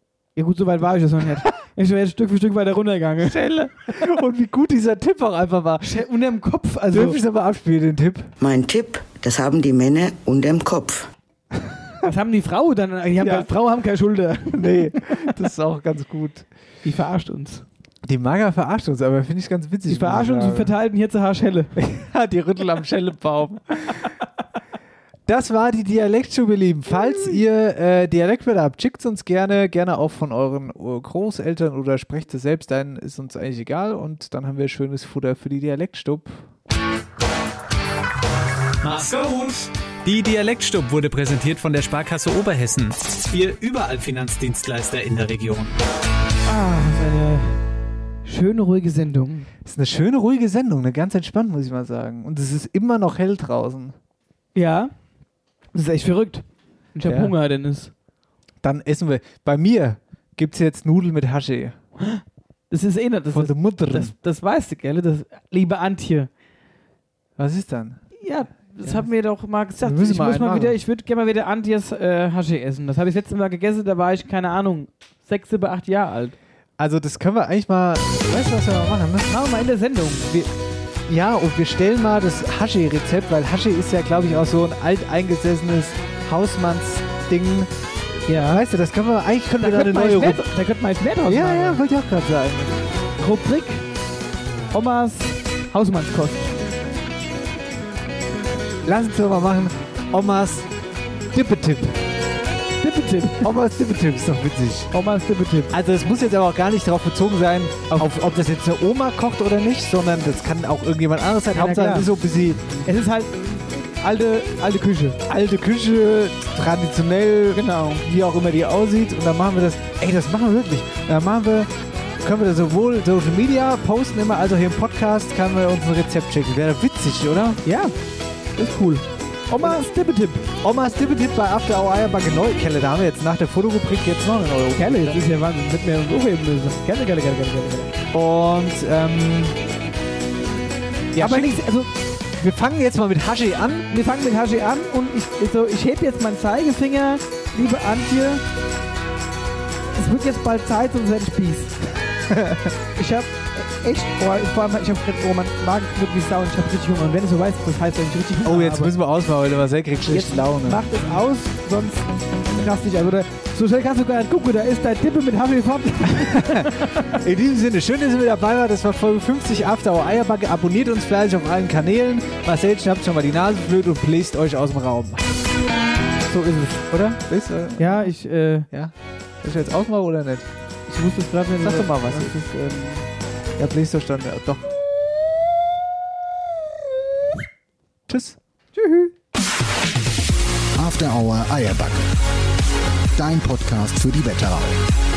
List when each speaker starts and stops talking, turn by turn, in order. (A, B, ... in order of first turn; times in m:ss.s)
0:00.4-0:03.4 A
0:03.2-0:06.0 B
0:05.8-0:07.2 A
0:06.9-0:08.3 B
0:08.4-0:11.1 C
0:12.0-0:15.1 A
0:14.5-0:16.4 B
0:16.8-0:17.6 A
0:18.0-0:20.7 B
0:19.9-0:21.7 A
0:21.8-0:24.1 B
0:25.3-0:36.4 B
0:38.8-0:45.8 D
0:46.4-0:47.6 A
0:48.2-0:49.5 A
0:49.6-0:53.9 B
0:54.5-0:54.9 A
0:55.7-0:57.9 A
0:57.0-0:57.3 B
0:58.6-1:01.8 B
1:02.0-1:06.3 A
1:03.3-1:04.1 B
1:07.4-1:08.1 B
1:08.2-1:16.4 A
1:09.8-1:10.8 B
1:16.8-1:19.3 B
1:19.3-1:20.5 A
1:21.1-1:27.7 B
1:28.3-1:28.6 A
1:28.3-1:30.5 B
1:29.6-1:31.8 A
1:31.2-1:32.7 B
1:33.2-1:33.8 A
1:34.7-1:36.5 A
1:38.8-1:40.7 B
1:41.3-1:42.0 B
1:42.8-1:43.5 A
1:43.4-1:44.9 B
1:44.9-1:45.7 A
1:45.7-1:52.8 B
1:51.5-1:52.1 A
1:52.8-1:53.4 A
1:54.0-1:55.2 A
1:55.3-2:01.7 B
1:57.5-1:58.0 A
2:02.2-2:07.6 B
2:07.6-2:07.9 A
2:08.6-2:10.5 A
2:10.6-2:15.2 B
2:14.7-2:17.9 A
2:18.1-2:19.5 B
2:21.1-2:21.6 B
2:21.2-2:21.9 A
2:22.4-2:23.9 B
2:23.9-2:28.4 A
2:30.0-2:31.8 A
2:32.3-2:32.7 B
2:33.0-2:38.9 A
2:38.4-2:40.8 B
2:40.1-2:47.1 A
2:46.2-2:55.3 B
2:56.3-2:56.8 A
2:56.9-2:58.1 B
2:57.8-2:58.7 A
2:58.7-3:00.5 B
3:00.9-3:03.0 A
3:01.6-3:02.3 B
3:03.6-3:04.7 B
3:08.1-3:08.4 B
3:08.7-3:09.1 A
3:10.8-3:12.0 E
3:13.2-3:14.8 E